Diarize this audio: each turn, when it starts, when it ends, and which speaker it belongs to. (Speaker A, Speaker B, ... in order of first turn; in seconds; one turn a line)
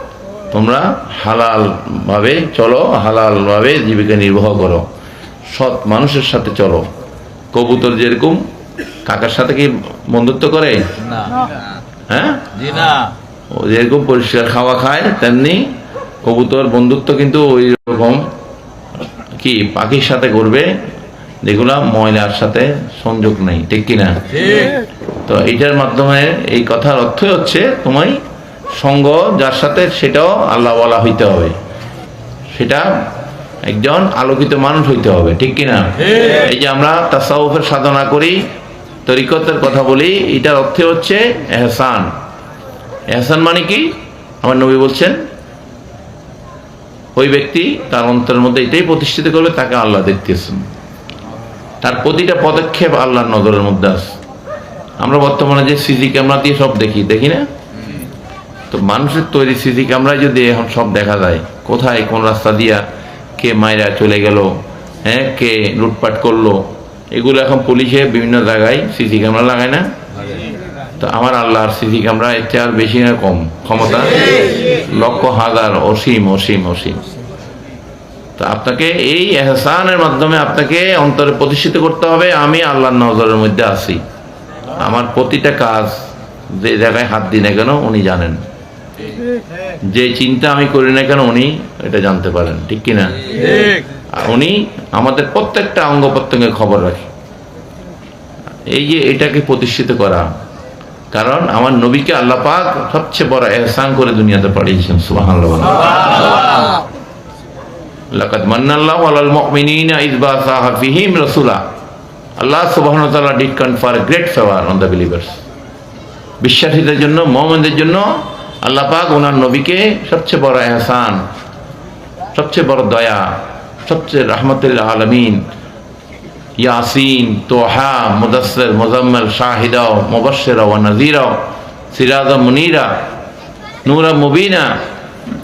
Speaker A: 0.5-4.8
Speaker A: 5.5-6.8
Speaker A: 7.5-8.4
Speaker A: 9.0-10.9
Speaker A: 12.1-12.7
Speaker A: 13.5-18.3
Speaker A: 19.4-20.7
Speaker A: 21.4-24.7
Speaker A: 25.2-28.2
Speaker A: 28.8-31.5
Speaker A: 32.5-33.0
Speaker A: 33.6-38.5
Speaker A: 39.0-42.1
Speaker A: 43.1-45.2
Speaker A: 47.1-50.6
Speaker A: 51.8-54.1
Speaker A: 55.0-57.5
Speaker A: 58.7-62.8
Speaker A: 63.4-69.8
Speaker A: 71.0-77.0
Speaker A: 78.4-84.0
Speaker A: 84.7-88.4
Speaker A: 89.8-93.5
Speaker A: 94.1-97.1
Speaker A: 98.7-100.3
Speaker A: 101.1-106.3
Speaker A: 108.1-111.6
Speaker A: 112.4-115.4
Speaker A: 116.4-121.2
Speaker A: 122.3-125.5
Speaker A: 126.6-131.4
Speaker A: 131.9-132.9
Speaker A: 133.8-134.8